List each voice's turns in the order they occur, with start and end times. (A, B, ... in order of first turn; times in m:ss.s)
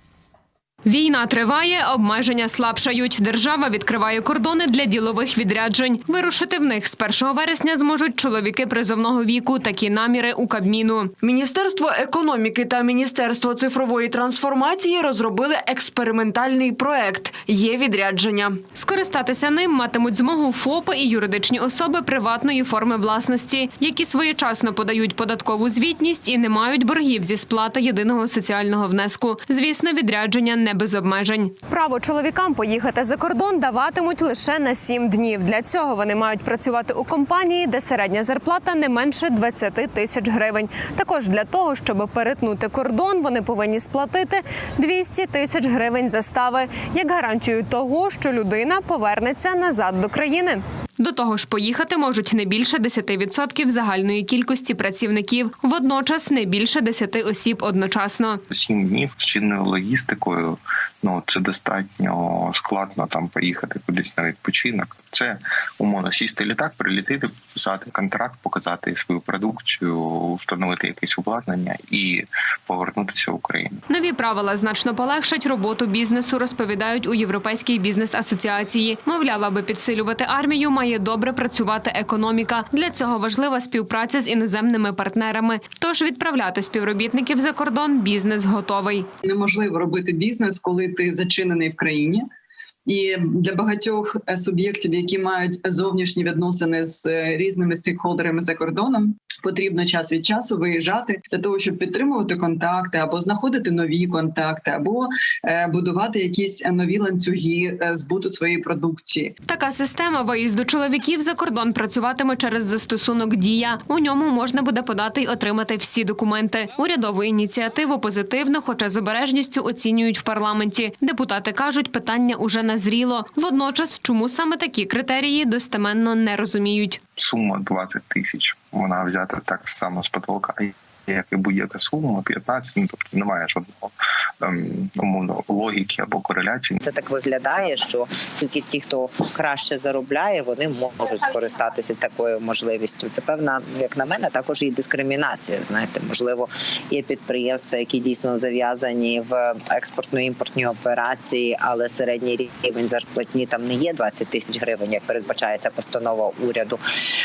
0:00.8-0:11.1 A
0:11.2-0:18.6 B
0:18.7-0:58.4 A
0:58.5-1:13.8 C
1:13.9-1:29.1 A
1:29.2-1:32.3 D
1:32.8-1:49.3 D
1:49.5-2:07.0 A
2:07.2-2:16.8 C
2:16.8-2:36.8 E